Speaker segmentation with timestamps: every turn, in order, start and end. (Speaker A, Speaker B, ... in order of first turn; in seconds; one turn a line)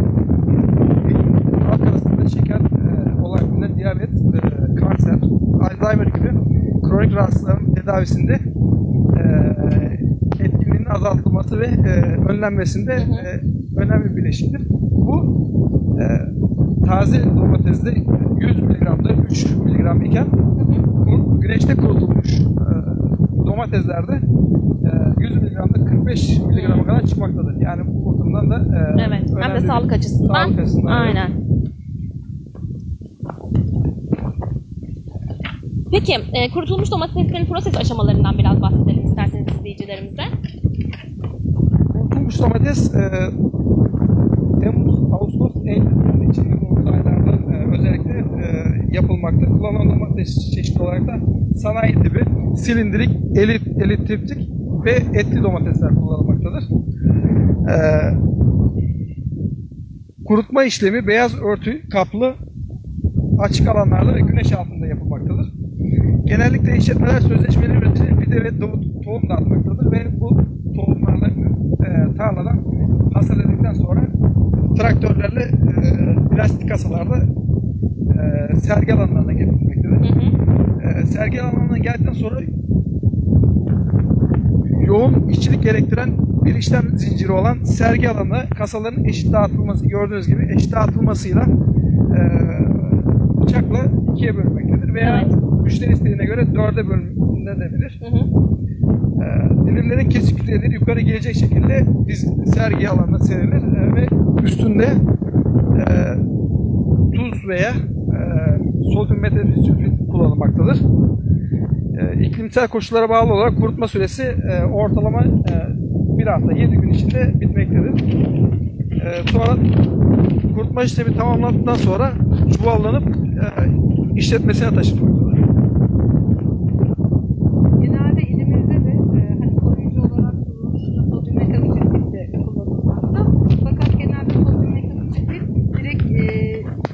Speaker A: 0.9-8.4
Speaker A: 9.1-15.3
Speaker B: 12.9-13.3
Speaker A: 16.0-16.3
Speaker A: 16.8-20.3
Speaker B: 20.6-20.9
Speaker A: 21.0-24.2
Speaker A: 24.8-31.2
Speaker B: 26.5-26.9
Speaker B: 29.0-31.3
Speaker B: 35.9-40.3
Speaker A: 41.9-43.3
Speaker A: 44.6-56.7
Speaker A: 57.7-58.2
Speaker A: 60.2-62.4
Speaker A: 63.4-65.5
Speaker A: 66.3-74.1
Speaker A: 74.8-77.3
Speaker A: 78.1-80.1
Speaker B: 80.0-80.3
Speaker A: 80.8-82.5
Speaker A: 84.8-91.5
Speaker A: 92.1-98.0
Speaker B: 95.0-95.3
Speaker B: 98.0-98.3
Speaker A: 99.2-105.0
Speaker A: 105.8-106.2
Speaker A: 107.1-110.8
Speaker A: 111.9-118.0
Speaker A: 119.0-119.7
Speaker A: 120.5-125.4
Speaker C: 127.8-136.7